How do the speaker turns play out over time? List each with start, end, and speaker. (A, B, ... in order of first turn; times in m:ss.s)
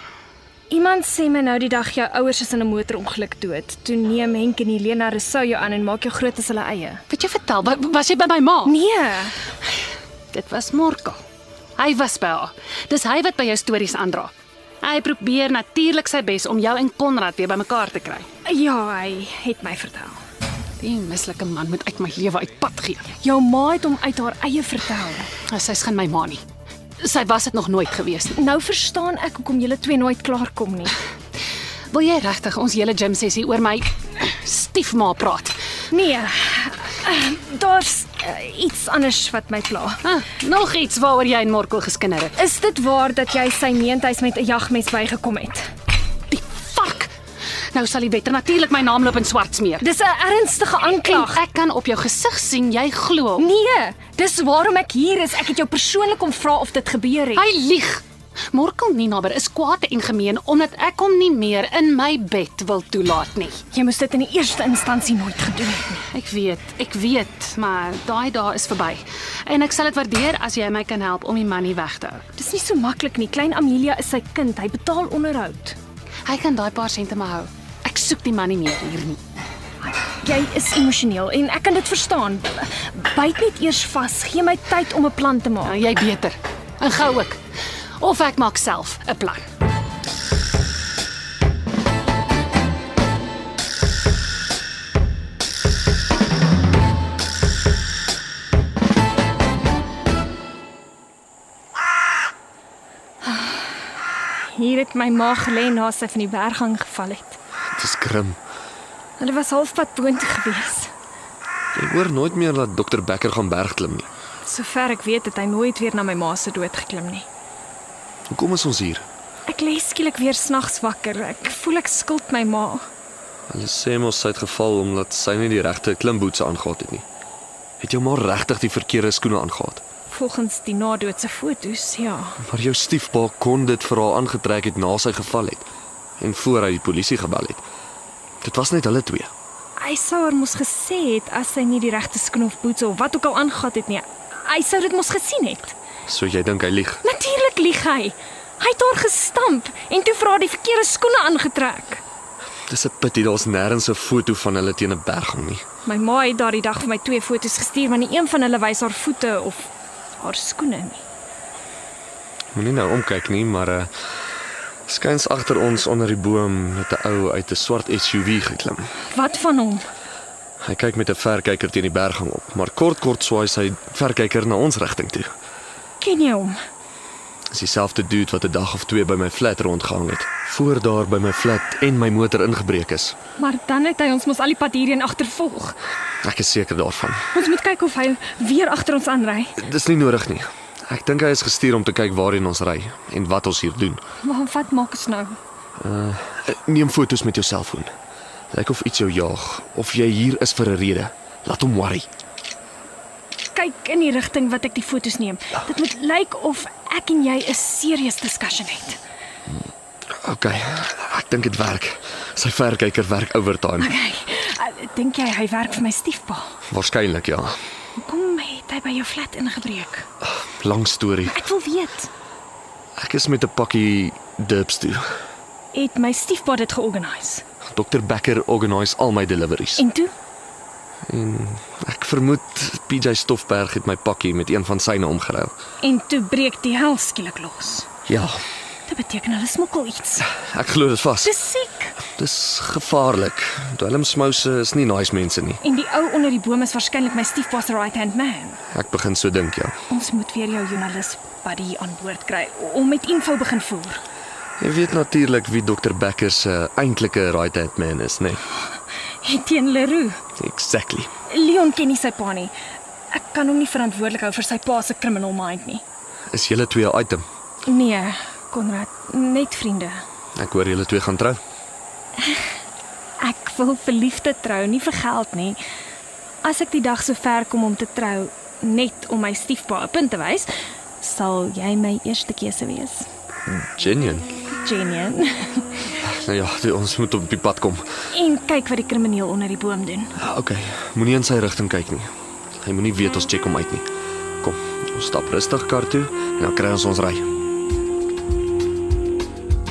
0:00.7-0:07.0 A
0:07.1-0:08.7 B
0:08.6-0:09.3 A
0:10.3-0:11.2 B
0:11.8-0:18.2 B
0:18.4-0:20.2 A
0:20.8-0:23.0 B
0:23.2-0:25.3 A
0:25.5-0:26.4 B
0:27.0-0:28.4 B
0:28.3-0:31.0 A
0:31.9-0:35.5 B
0:35.9-0:40.0 A
0:40.0-0:42.3 B
0:42.4-0:45.6 A
0:46.3-0:47.1 B
0:47.7-0:49.8 B
0:49.8-0:51.4 A
0:51.0-0:53.4 B
0:53.4-0:57.4 A
0:57.4-1:03.6 B
1:03.7-1:06.0 A
1:06.1-1:12.2 B
1:12.4-1:15.8 A
1:16.2-1:19.2 B
1:19.8-1:25.7 A
1:25.6-1:27.4 B
1:28.0-1:29.4 B
1:43.2-1:47.4 A
1:47.8-1:48.4 C
1:49.2-1:50.9 A
1:51.7-1:54.1 C
1:54.4-1:57.3 A
1:58.3-1:59.0 C
1:59.5-2:02.8 A
2:03.5-2:07.0 C
2:07.8-2:09.8 C
2:10.1-2:12.4 A
2:12.4-2:15.6 C
2:16.2-2:17.6 C
2:18.4-2:19.3 C
2:19.8-2:25.7 A
2:26.1-2:27.0 C
2:27.0-2:32.0 A
2:32.7-2:35.6 C
2:35.8-2:41.0 A
2:42.5-2:43.9 C
2:44.9-2:48.9 C
2:49.1-2:49.8 A
2:50.6-2:55.3 C
2:56.0-2:56.6 A
2:57.5-3:03.2 C
3:03.4-3:05.8 A
3:06.2-3:07.2 C
3:07.3-3:09.6 A
3:09.6-3:14.0 C
3:14.2-3:15.4 A
3:15.8-3:17.9 C
3:18.5-3:22.1 C
3:23.5-3:29.0 A
3:30.2-3:33.9 C
3:33.8-3:36.5 A
3:36.7-3:37.6 C
3:38.0-3:40.0 A
3:40.4-3:41.4 C
3:41.3-3:42.1 A
3:43.0-3:45.0 C
3:45.7-3:47.4 A
3:47.6-3:49.8 C
3:49.8-3:50.1 A
3:51.1-3:55.5 C
3:55.8-3:57.9 A
3:58.1-3:58.4 C
3:58.9-4:00.3 A
4:00.3-4:01.3 C
4:01.2-4:02.0 A
4:02.1-4:05.6 C
4:05.6-4:08.6 A
4:08.7-4:09.7 C
4:09.9-4:14.0 A
4:14.6-4:18.4 C
4:19.2-4:20.2 A
4:20.4-4:21.1 C
4:21.3-4:22.5 A
4:23.1-4:25.8 A
4:26.3-4:27.2 C
4:27.6-4:30.0 A
4:30.4-4:31.4 C
4:33.2-4:35.6 A
4:36.4-4:40.5 A
4:41.0-4:43.1 A
4:43.5-4:44.3 C
4:44.5-4:45.8 A
4:46.1-4:47.8 C
4:48.1-4:50.1 A
4:50.2-4:52.1 C
4:52.6-4:53.9 C
4:54.4-4:57.2 C